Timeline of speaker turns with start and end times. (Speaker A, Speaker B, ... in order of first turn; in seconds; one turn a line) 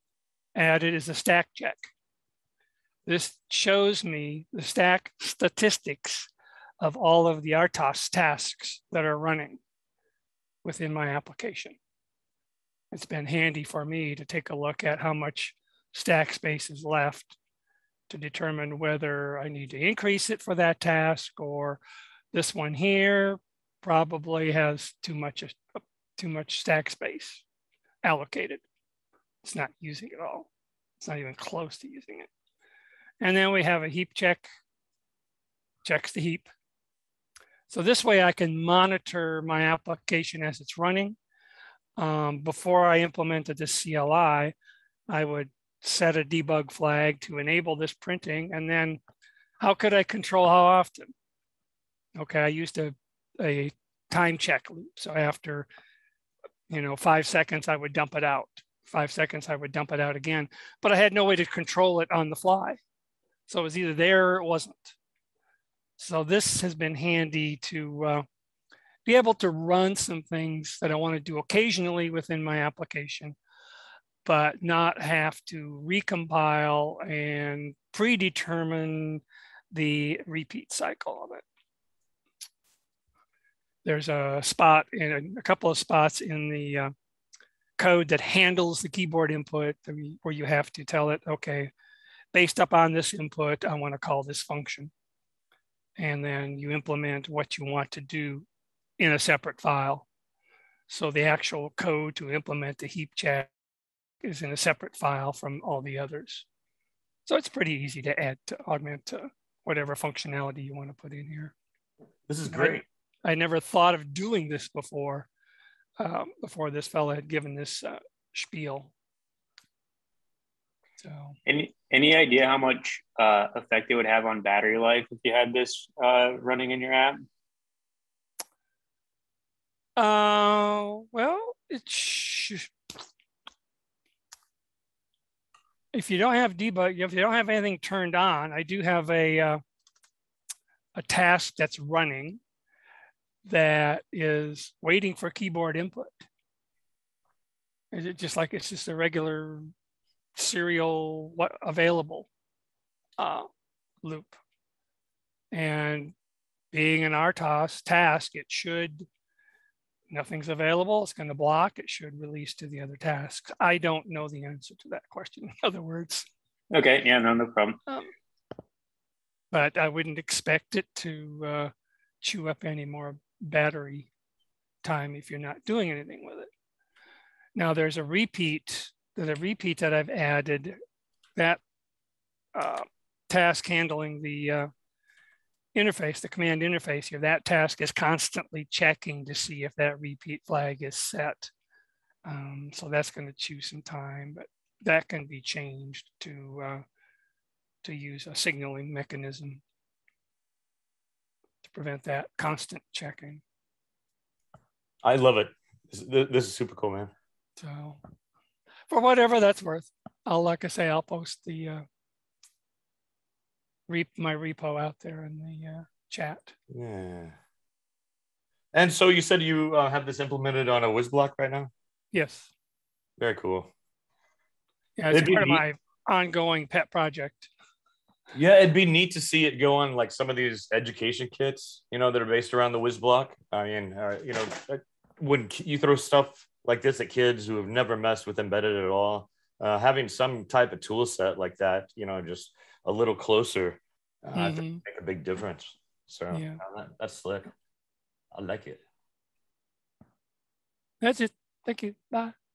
Speaker A: 0.5-1.9
Speaker A: 3.0-9.6
Speaker A: 10.6-11.8
Speaker A: 12.9-17.4
Speaker A: 18.1-21.8
Speaker A: 22.3-27.4
Speaker A: 28.0-28.6
Speaker A: 29.4-30.5
Speaker A: 31.0-32.3
Speaker A: 33.2-34.5
Speaker A: 35.8-36.5
Speaker A: 37.7-41.2
Speaker A: 42.0-44.5
Speaker A: 45.1-49.0
Speaker A: 49.6-51.1
Speaker A: 52.2-55.7
Speaker A: 56.7-62.8
Speaker A: 63.5-65.0
Speaker A: 66.0-68.2
Speaker A: 69.0-73.4
Speaker A: 74.2-81.4
Speaker A: 83.8-86.9
Speaker A: 87.8-91.7
Speaker A: 92.3-94.9
Speaker A: 96.0-98.5
Speaker A: 99.0-100.1
Speaker A: 100.9-103.5
Speaker A: 104.2-106.5
Speaker A: 107.2-111.5
Speaker B: 112.3-112.8
Speaker A: 112.5-115.3
Speaker A: 116.0-118.9
Speaker A: 121.0-121.3
Speaker C: 121.5-127.2
Speaker A: 130.0-132.7
Speaker A: 135.9-139.6
Speaker A: 140.9-142.4
Speaker A: 143.4-146.3
Speaker A: 147.9-149.6
Speaker A: 150.3-152.3
Speaker A: 153.2-153.5
Speaker A: 154.0-154.4
Speaker A: 155.5-156.1
Speaker A: 156.7-159.1
Speaker A: 160.1-166.3
Speaker C: 166.7-167.8
Speaker A: 169.5-174.1
Speaker A: 174.8-176.5
Speaker A: 177.5-180.8
Speaker A: 182.5-184.7
Speaker A: 185.7-191.5
Speaker A: 192.2-196.8
Speaker A: 197.8-199.6
Speaker A: 201.6-203.4
Speaker B: 205.0-207.1
Speaker A: 207.6-208.0
Speaker A: 208.9-211.8
Speaker A: 213.9-216.6
Speaker B: 216.7-217.3
Speaker B: 218.7-221.7
Speaker A: 222.1-222.5
Speaker B: 223.2-223.7
Speaker A: 225.0-227.5
Speaker B: 225.1-225.6
Speaker B: 228.3-247.5
Speaker A: 244.3-244.8
Speaker A: 246.3-246.6
Speaker B: 248.3-248.8
Speaker A: 251.0-252.3